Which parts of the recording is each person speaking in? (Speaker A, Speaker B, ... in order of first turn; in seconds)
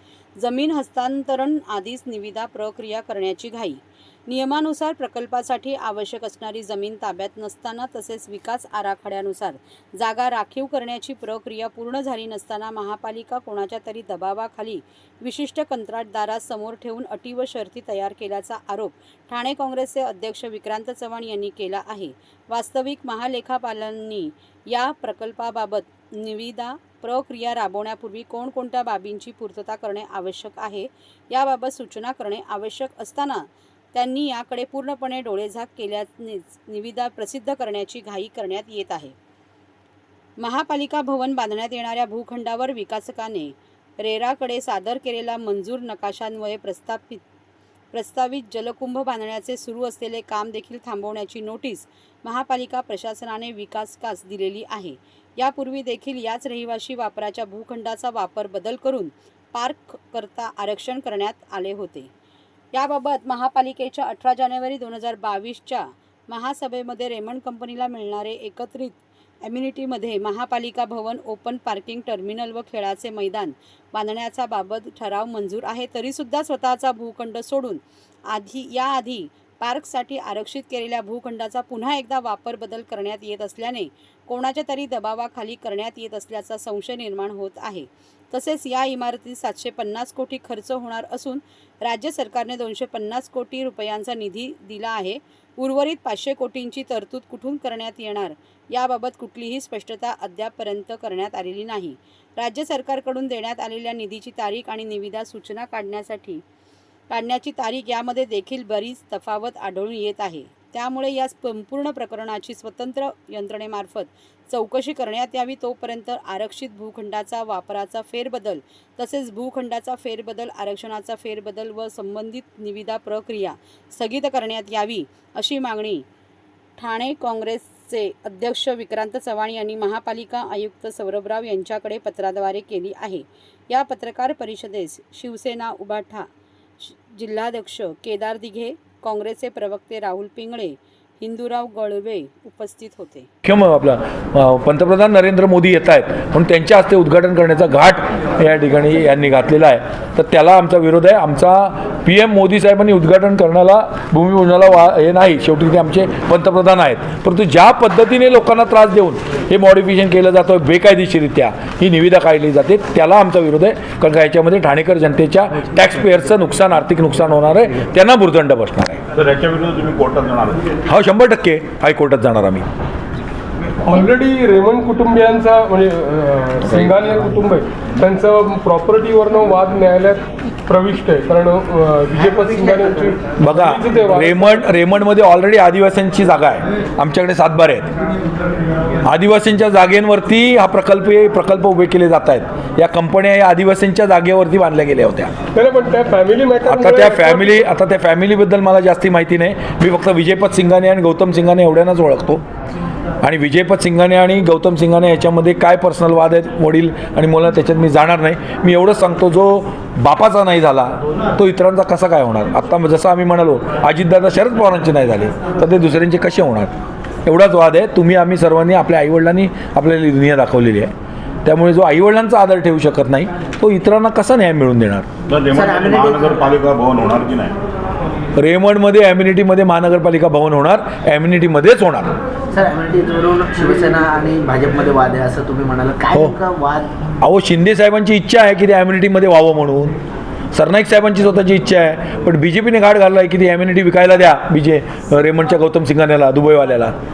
Speaker A: 0.4-39.1, 40.4-47.2, 47.9-62.1, 62.7-106.4, 107.1-126.0, 126.8-136.3, 136.8-143.3
Speaker B: 143.4-169.0, 170.9-172.7, 183.4-187.9, 189.0-195.3, 196.6-202.4, 203.2-216.7, 217.2-220.9, 221.4-225.1, 228.3-232.2, 236.1-236.4, 237.2-239.9, 240.5-246.9
Speaker C: 169.1-170.7, 225.3-227.6
Speaker D: 173.8-184.6, 195.5-197.6
Speaker E: 225.5-226.6, 232.5-236.9